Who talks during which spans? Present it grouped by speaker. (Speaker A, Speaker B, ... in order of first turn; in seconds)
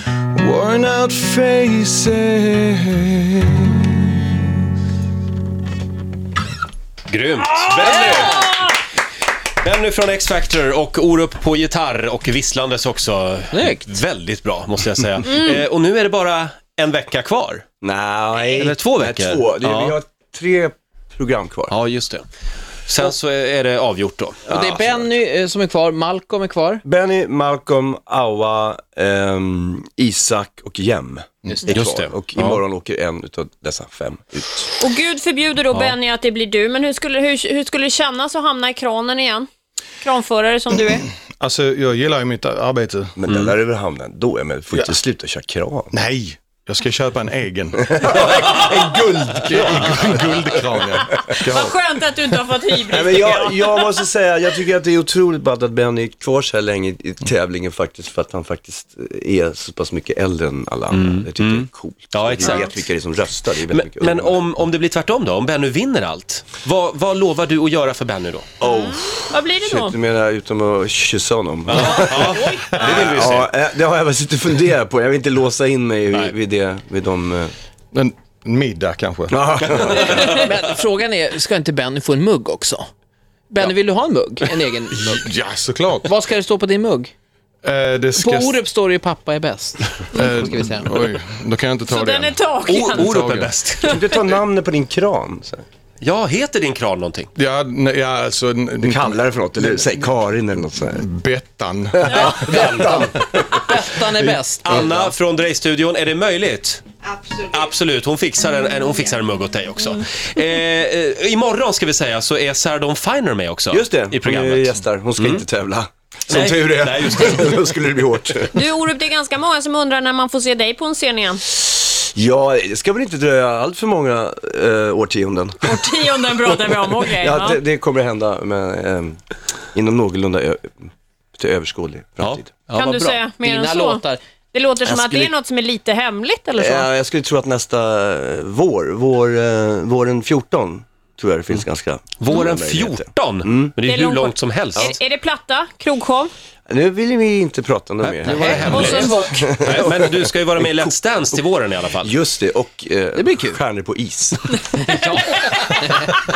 Speaker A: 0.4-2.6, 3.6-4.4, 41.4-43.2, 45.9-51.8, 77.9-80.1, 84.9-86.1, 87.6-88.6, 90.1-93.6, 97.4-99.2, 100.8-102.7
Speaker B: 1.4-3.5, 17.8-21.7, 24.6-25.0, 26.8-34.8, 43.2-45.9, 47.8-50.3, 52.9-64.5, 68.6-77.5, 79.3-80.4, 93.9-95.7, 98.8-101.0, 102.0-103.7, 113.7-118.7, 121.5-125.7, 127.0-129.2, 129.7-132.6, 134.8-135.3, 136.6-143.8, 146.7-150.7, 152.0-154.6
Speaker C: 7.1-8.8, 9.6-17.6, 18.4-20.0, 21.7-22.2, 22.9-24.6, 31.7-32.6, 60.9-62.7, 63.7-68.5, 71.7-73.5, 92.7-94.0, 96.0-97.3, 102.5-103.0, 104.6-115.5, 116.3-117.6, 142.2-144.9, 148.0-152.1
Speaker D: 7.8-8.5, 13.5-14.0, 24.5-26.8, 80.0-82.9, 83.5-85.2, 86.0-87.1, 88.2-91.0, 102.2-105.1, 132.7-134.2, 148.3-149.4, 153.2-153.6, 154.8-156.2
Speaker E: 34.8-39.5, 40.0-41.0, 51.2-54.0, 62.4-62.7, 68.6-70.0, 71.8-73.1, 91.9-93.1, 118.5-121.4, 125.6-127.6, 132.7-136.9, 143.8-146.3, 148.4-149.5, 154.9-155.2